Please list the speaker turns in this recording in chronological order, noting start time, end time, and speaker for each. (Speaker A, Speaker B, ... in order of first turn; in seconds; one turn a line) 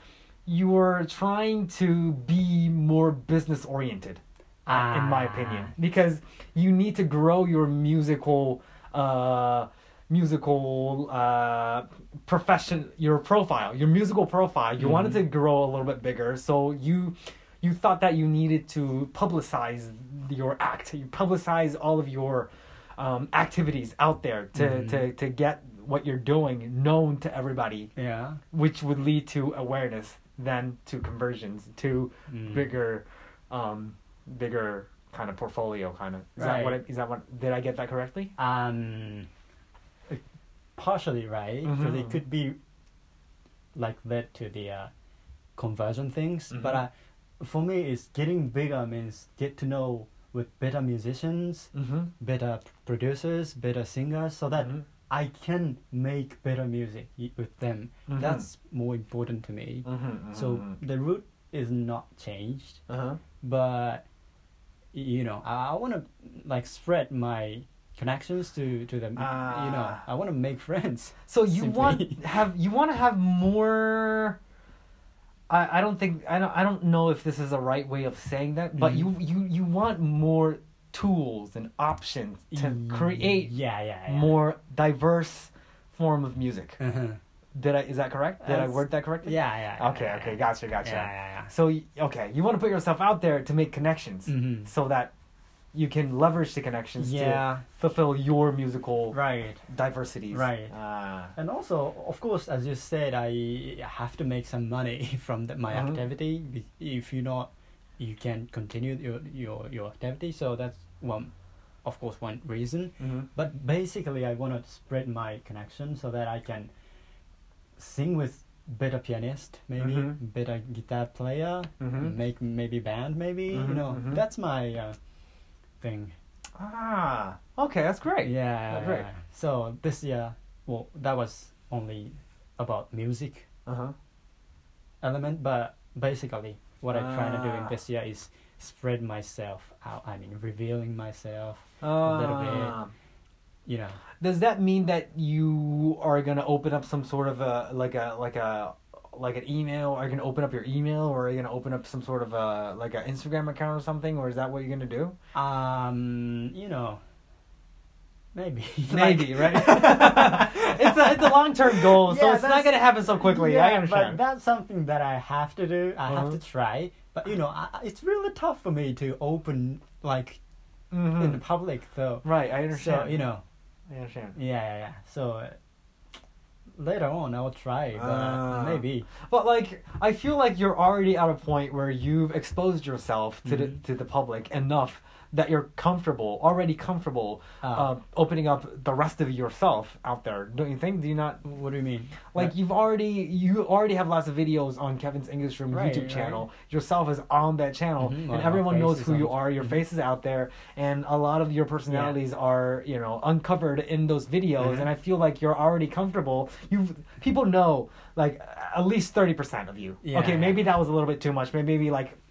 Speaker A: 0.5-27.9
Speaker B: 4.7-5.7
Speaker B: 14.8-15.2
Speaker B: 24.5-25.1
Speaker B: 27.9-28.4
Speaker A: 28.5-38.3
Speaker B: 32.3-32.8
Speaker B: 36.4-36.8
Speaker B: 38.4-39.3
Speaker B: 40.8-42.6
Speaker A: 41.6-42.2
Speaker B: 43.7-44.9
Speaker B: 45.6-62.8
Speaker A: 46.5-46.8
Speaker A: 51.7-52.1
Speaker A: 54.5-54.8
Speaker A: 58.1-58.5
Speaker A: 59.8-60.8
Speaker A: 62.9-63.2
Speaker B: 63.4-64.0
Speaker B: 64.9-72.4
Speaker A: 69.2-70.0
Speaker A: 71.3-74.4
Speaker A: 75.5-83.5
Speaker B: 78.8-79.1
Speaker B: 82.5-84.4
Speaker A: 84.1-86.8
Speaker B: 86.8-87.2
Speaker A: 87.5-95.1
Speaker B: 88.4-91.5
Speaker B: 94.3-94.7
Speaker A: 95.7-101.3
Speaker B: 97.0-97.6
Speaker B: 99.1-99.6
Speaker B: 100.3-100.7
Speaker B: 101.3-111.3
Speaker A: 105.7-106.0
Speaker B: 111.8-116.7
Speaker A: 113.0-113.3
Speaker B: 117.8-125.0
Speaker A: 119.8-120.2
Speaker A: 121.8-122.2
Speaker A: 123.5-124.2
Speaker B: 125.8-126.1
Speaker A: 126.6-129.1
Speaker B: 128.2-133.4
Speaker A: 133.7-133.9
Speaker B: 135.0-142.8
Speaker A: 136.9-137.7
Speaker A: 141.8-142.9
Speaker B: 143.7-144.0
Speaker A: 144.2-155.1
Speaker B: 155.3-157.0
Speaker B: 158.3-170.4
Speaker A: 158.9-164.2
Speaker A: 166.1-166.4
Speaker A: 170.9-171.4
Speaker B: 171.1-173.4
Speaker A: 172.2-173.3
Speaker A: 173.9-174.4
Speaker B: 174.3-175.6
Speaker B: 176.8-179.1
Speaker A: 177.9-191.4
Speaker B: 183.4-183.8
Speaker B: 187.6-187.9
Speaker B: 191.4-192.5
Speaker A: 192.3-212.2
Speaker B: 195.7-196.4
Speaker B: 198.0-199.8
Speaker B: 201.9-202.2
Speaker B: 204.6-204.9
Speaker B: 210.0-210.7